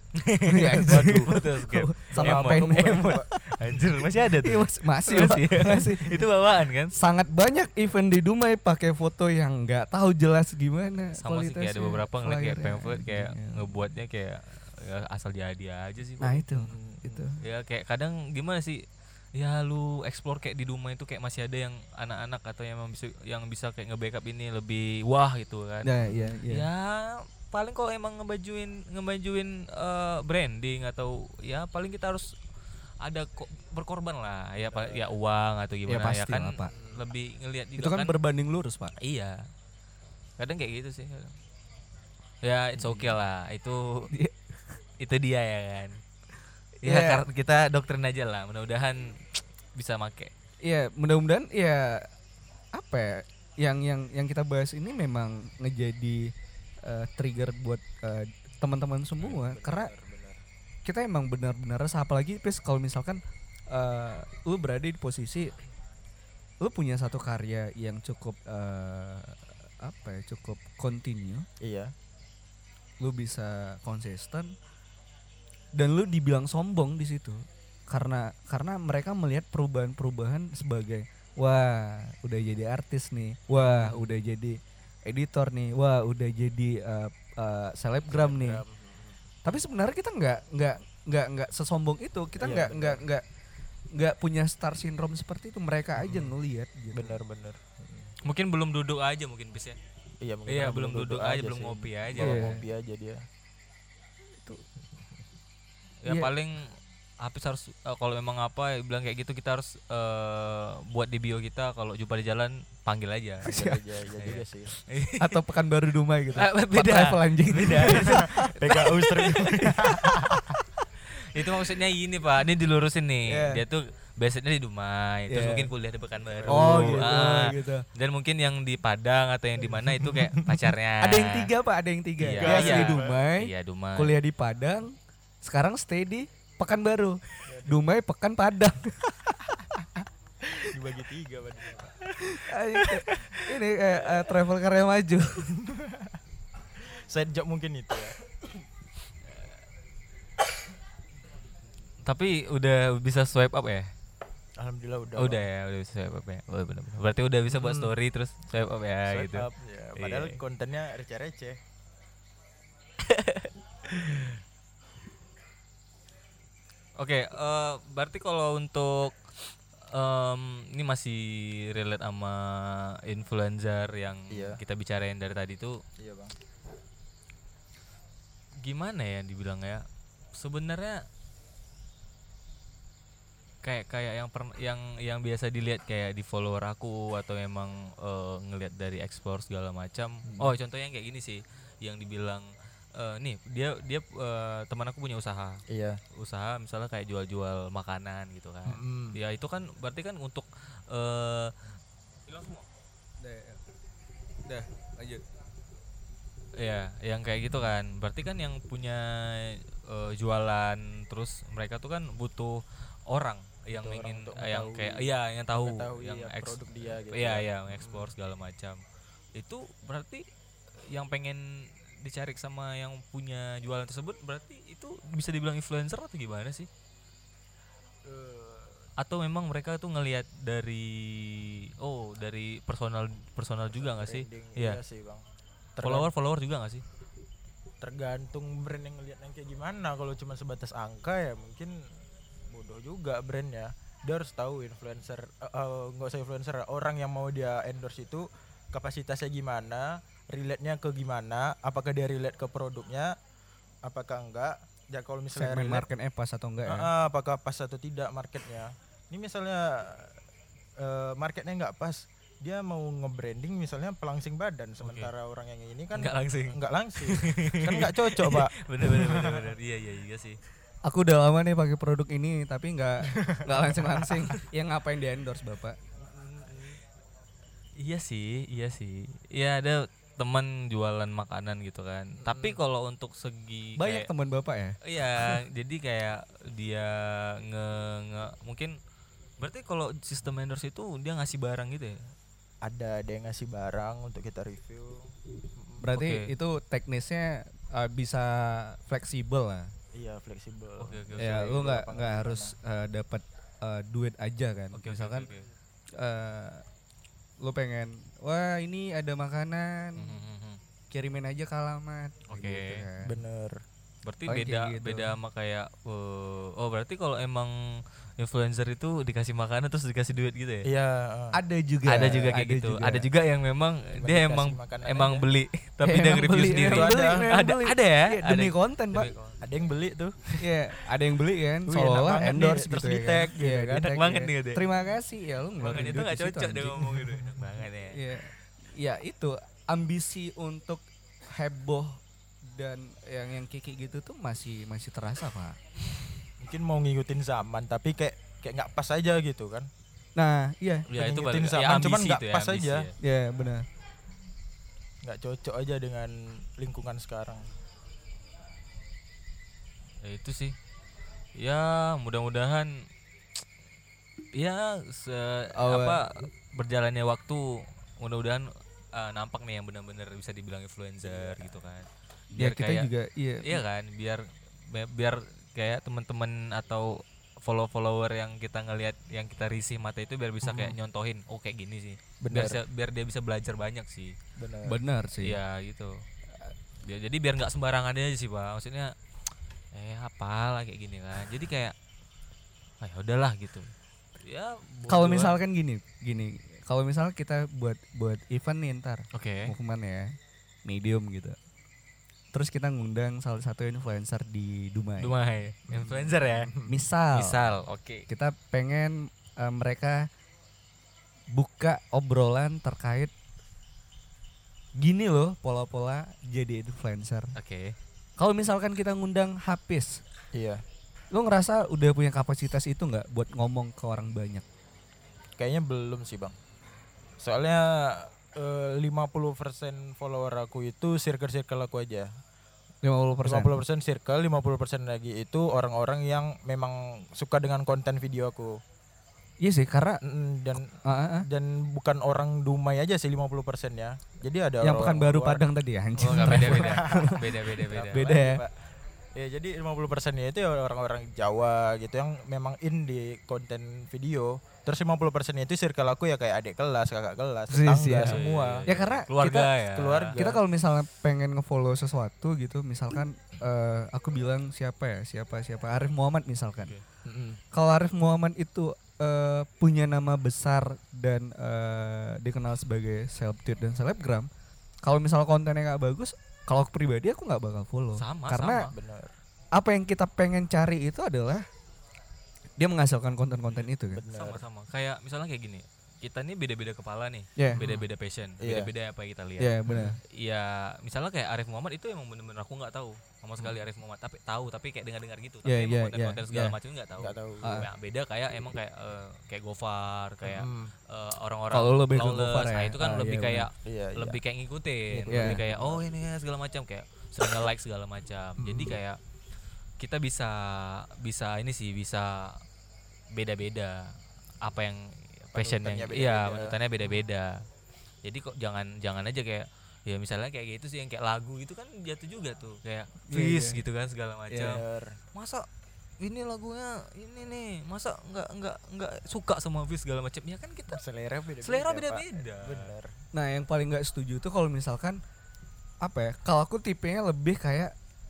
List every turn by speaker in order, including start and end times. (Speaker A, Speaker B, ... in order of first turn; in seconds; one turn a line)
Speaker A: 0.2-7.0
Speaker B: 0.4-3.2
Speaker C: 0.9-1.4
Speaker C: 2.1-3.3
Speaker B: 4.4-6.3
Speaker B: 6.9-13.7
Speaker A: 11.1-16.4
Speaker B: 16.2-17.4
Speaker C: 16.6-17.2
Speaker A: 17.4-25.9
Speaker B: 25.8-26.7
Speaker A: 26.5-32.3
Speaker A: 33.0-38.2
Speaker C: 34.6-35.1
Speaker B: 35.9-36.7
Speaker C: 36.7-37.0
Speaker B: 37.8-38.9
Speaker A: 39.0-39.5
Speaker A: 40.4-41.4
Speaker A: 42.4-44.1
Speaker B: 44.1-44.5
Speaker A: 45.0-46.0
Speaker B: 46.8-47.2
Speaker A: 46.8-50.3
Speaker B: 50.6-52.1
Speaker B: 52.7-59.9
Speaker C: 59.2-60.4
Speaker B: 60.9-65.5
Speaker B: 66.6-71.5
Speaker C: 71.6-71.9
Speaker B: 73.0-74.5
Speaker B: 75.8-88.6
Speaker C: 83.5-84.2
Speaker C: 88.1-89.2
Speaker B: 89.4-93.3
Speaker C: 92.4-93.0
Speaker B: 93.9-97.2
Speaker C: 96.0-96.3
Speaker C: 96.9-98.1
Speaker A: 98.2-99.8
Speaker C: 100.2-103.2
Speaker A: 100.5-102.6
Speaker B: 102.2-102.7
Speaker B: 104.3-104.6
Speaker A: 106.0-113.7
Speaker B: 113.5-113.8
Speaker C: 113.5-114.7
Speaker A: 114.2-115.4
Speaker B: 115.1-119.0
Speaker A: 116.3-119.8
Speaker C: 117.8-120.6
Speaker B: 119.8-120.1
Speaker A: 121.1-131.5
Speaker B: 123.3-123.6
Speaker B: 125.3-125.7
Speaker C: 126.3-127.0
Speaker B: 126.5-127.9
Speaker C: 129.9-130.6
Speaker B: 131.0-139.6
Speaker A: 132.2-134.2
Speaker C: 132.4-133.2
Speaker C: 137.5-137.8
Speaker C: 140.6-142.1
Speaker B: 142.2-145.5
Speaker C: 142.8-144.3
Speaker C: 145.4-146.2
Speaker C: 146.8-148.2
Speaker A: 152.1-153.9
Speaker C: 154.6-155.4
Speaker A: 155.2-160.4
Speaker C: 157.5-157.9
Speaker C: 159.1-161.6
Speaker A: 163.0-163.5
Speaker A: 167.0-175.8
Speaker C: 174.3-174.6
Speaker C: 176.0-176.3
Speaker A: 178.6-181.1
Speaker A: 183.6-201.6
Speaker C: 190.3-190.5
Speaker C: 195.7-196.0
Speaker C: 198.7-199.2
Speaker A: 202.3-202.7
Speaker B: 203.2-203.6
Speaker B: 204.4-205.2
Speaker A: 206.6-218.8
Speaker C: 213.7-218.1
Speaker A: 219.3-220.3
Speaker A: 220.9-226.7
Speaker C: 228.0-228.9
Speaker A: 229.0-234.8
Speaker C: 233.7-235.2
Speaker C: 235.8-236.1
Speaker A: 235.8-236.8
Speaker C: 237.8-241.8
Speaker C: 242.5-253.2
Speaker C: 253.8-255.9
Speaker B: 255.3-256.9
Speaker C: 256.6-260.2
Speaker C: 260.8-269.5
Speaker A: 264.8-265.1
Speaker A: 265.9-270.4
Speaker B: 270.9-275.8
Speaker C: 273.1-274.3
Speaker C: 276.0-276.8
Speaker A: 277.8-284.1
Speaker C: 282.2-282.6
Speaker B: 283.8-285.4
Speaker A: 284.8-288.8
Speaker A: 289.4-292.1
Speaker C: 292.6-295.9
Speaker B: 295.8-299.7
Speaker A: 295.9-296.3
Speaker C: 299.9-302.5
Speaker A: 300.8-301.6
Speaker B: 301.2-305.3
Speaker A: 304.7-305.5
Speaker B: 306.0-306.6
Speaker B: 307.4-310.2
Speaker A: 310.0-310.6
Speaker B: 310.9-313.2
Speaker A: 312.3-312.9
Speaker C: 313.0-313.6
Speaker A: 314.1-320.7
Speaker B: 314.3-315.1
Speaker C: 320.6-321.4
Speaker B: 321.3-323.1
Speaker A: 321.9-329.4
Speaker C: 323.9-325.3
Speaker B: 325.8-329.1
Speaker C: 326.6-327.3
Speaker C: 329.4-330.5
Speaker B: 330.4-337.2
Speaker C: 331.7-334.0
Speaker A: 333.8-334.7
Speaker A: 335.6-338.0
Speaker B: 337.9-345.6
Speaker C: 346.4-349.7
Speaker B: 350.2-350.9
Speaker A: 350.9-352.9
Speaker C: 350.9-352.9
Speaker B: 353.0-353.7
Speaker C: 355.0-357.5
Speaker A: 360.0-360.6
Speaker A: 361.4-362.9
Speaker A: 364.3-372.9
Speaker B: 365.6-366.0
Speaker C: 371.0-371.5
Speaker B: 372.3-373.6
Speaker A: 373.4-384.2
Speaker C: 380.4-380.8
Speaker C: 382.2-382.6
Speaker C: 384.4-384.8
Speaker B: 384.7-385.4
Speaker A: 385.2-386.1
Speaker A: 386.8-388.9
Speaker A: 389.7-391.8
Speaker A: 392.8-395.4
Speaker B: 394.9-401.4
Speaker A: 399.1-399.5
Speaker B: 402.3-405.1
Speaker A: 405.0-406.5
Speaker C: 405.7-406.7
Speaker B: 406.6-407.6
Speaker A: 407.1-408.1
Speaker B: 408.1-410.1
Speaker B: 411.3-413.1
Speaker B: 414.8-417.3
Speaker A: 417.4-417.8
Speaker B: 418.2-420.0
Speaker C: 420.3-420.6
Speaker B: 421.1-424.4
Speaker C: 425.4-426.4
Speaker C: 427.2-432.1
Speaker B: 432.8-433.6
Speaker C: 433.2-438.6
Speaker B: 439.4-440.0
Speaker C: 440.0-445.4
Speaker B: 440.8-441.3
Speaker B: 444.6-447.3
Speaker A: 446.0-448.1
Speaker C: 446.1-458.6
Speaker B: 447.9-448.4
Speaker B: 457.5-459.5
Speaker A: 457.9-460.2
Speaker C: 459.7-460.4
Speaker B: 460.2-466.7
Speaker C: 467.1-467.4
Speaker B: 467.5-474.3
Speaker B: 474.8-478.7
Speaker A: 478.0-478.7
Speaker C: 478.7-479.1
Speaker B: 479.5-481.5
Speaker B: 482.6-484.0
Speaker C: 483.9-484.4
Speaker A: 484.1-509.0
Speaker B: 487.4-487.6
Speaker C: 487.6-487.9
Speaker C: 488.4-488.7
Speaker B: 489.4-490.0
Speaker C: 489.7-490.0
Speaker B: 495.4-496.6
Speaker C: 497.0-497.5
Speaker B: 497.4-497.7
Speaker C: 500.2-500.7
Speaker B: 501.5-503.5
Speaker C: 503.6-504.2
Speaker C: 504.9-505.9
Speaker B: 505.1-505.4
Speaker C: 508.4-508.8
Speaker A: 509.8-512.4
Speaker A: 513.1-517.5
Speaker C: 515.4-516.6
Speaker A: 518.0-524.6
Speaker B: 523.1-523.6
Speaker C: 524.4-525.0
Speaker A: 525.1-525.5
Speaker A: 526.0-530.8
Speaker C: 530.7-532.9
Speaker A: 531.4-532.7
Speaker B: 533.1-535.0
Speaker B: 535.8-537.7